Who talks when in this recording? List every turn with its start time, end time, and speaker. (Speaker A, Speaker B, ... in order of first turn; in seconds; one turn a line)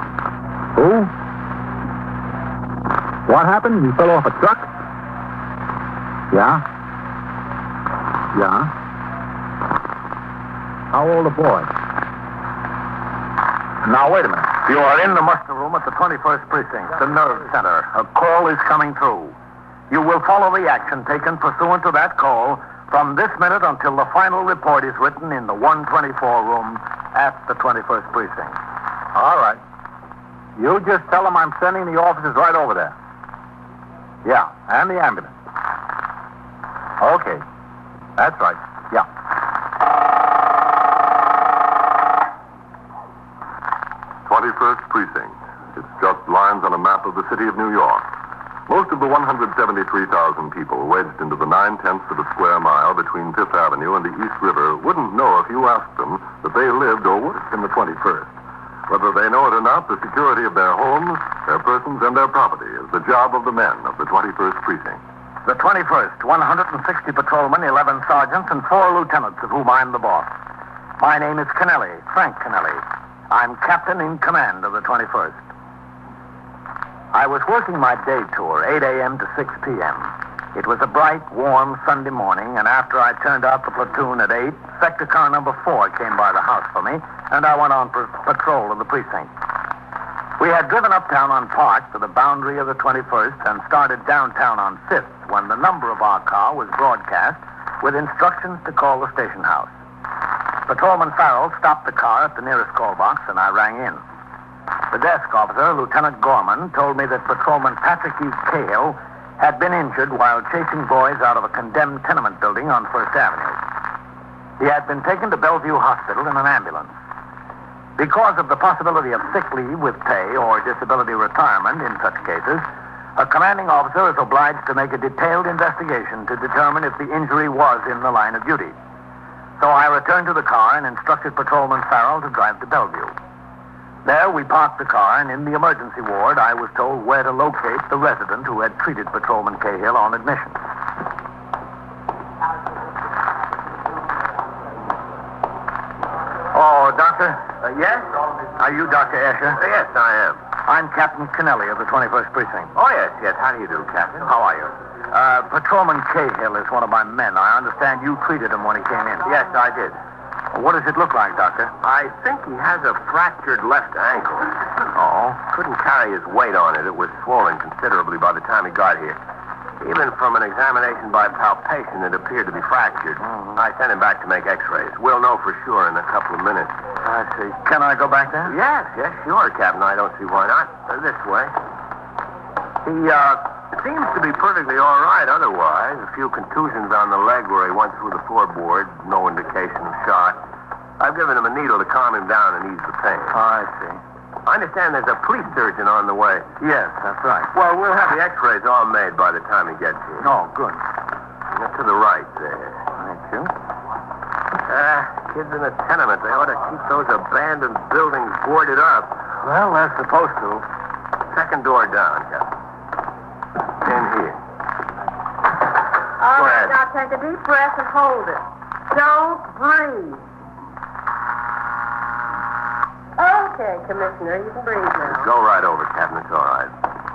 Speaker A: 0.8-1.1
Speaker A: 3.2-4.7
Speaker A: 6.3-6.6
Speaker A: 8.3-8.7
Speaker A: 10.9-11.7
Speaker A: 13.8-14.6
Speaker B: 14.7-19.3
Speaker B: 19.9-28.6
Speaker A: 29.1-29.6
Speaker A: 30.6-32.9
Speaker A: 34.2-35.3
Speaker A: 37.0-37.4
Speaker A: 38.2-39.0
Speaker C: 44.2-48.1
Speaker C: 48.7-58.3
Speaker C: 58.9-65.0
Speaker B: 65.5-70.3
Speaker B: 71.0-75.4
Speaker B: 77.1-89.3
Speaker B: 90.4-99.7
Speaker B: 100.7-104.0
Speaker B: 104.9-113.5
Speaker B: 114.6-116.9
Speaker B: 118.0-122.6
Speaker B: 123.2-128.8
Speaker B: 129.6-133.1
Speaker B: 134.0-140.6
Speaker B: 146.5-147.5
Speaker D: 147.8-148.0
Speaker B: 148.6-149.6
Speaker D: 149.6-150.4
Speaker B: 150.7-152.7
Speaker D: 152.7-154.7
Speaker B: 155.1-159.2
Speaker D: 159.2-160.0
Speaker B: 160.5-161.7
Speaker D: 161.8-164.5
Speaker B: 165.0-165.2
Speaker D: 165.4-169.2
Speaker D: 169.8-176.8
Speaker B: 177.0-178.5
Speaker D: 178.4-181.5
Speaker D: 182.8-190.4
Speaker D: 191.0-193.3
Speaker B: 193.3-194.0
Speaker D: 194.4-196.5
Speaker B: 196.6-197.5
Speaker D: 197.5-200.3
Speaker B: 200.2-200.8
Speaker D: 201.5-202.8
Speaker B: 203.0-203.4
Speaker D: 204.7-209.1
Speaker B: 209.4-210.6
Speaker D: 211.3-212.5
Speaker D: 213.8-214.4
Speaker E: 216.2-220.2
Speaker D: 216.3-216.8
Speaker E: 223.2-225.3
Speaker D: 225.0-226.7